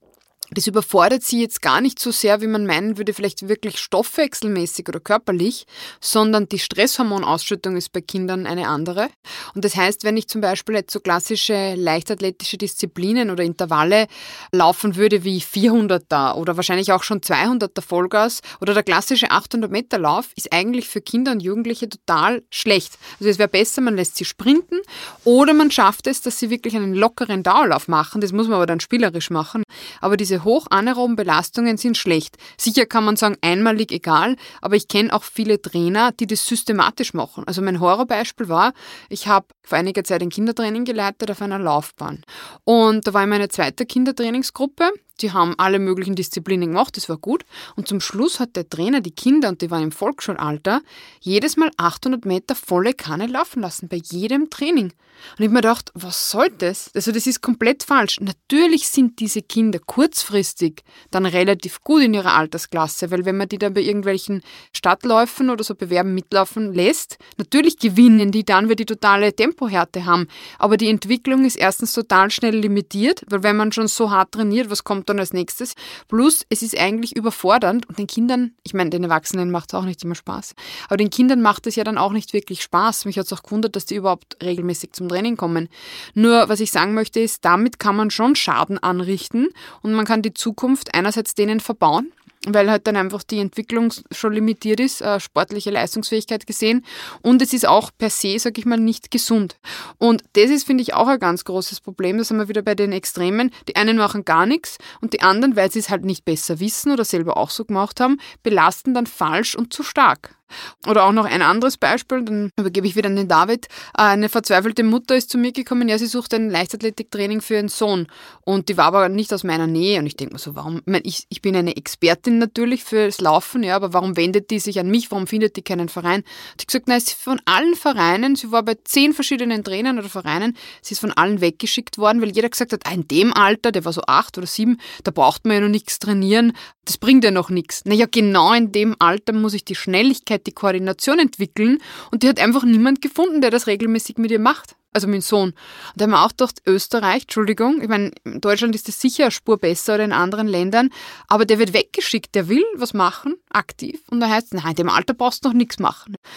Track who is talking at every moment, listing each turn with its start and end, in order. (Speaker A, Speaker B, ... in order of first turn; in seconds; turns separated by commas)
Speaker A: 0.5-156.2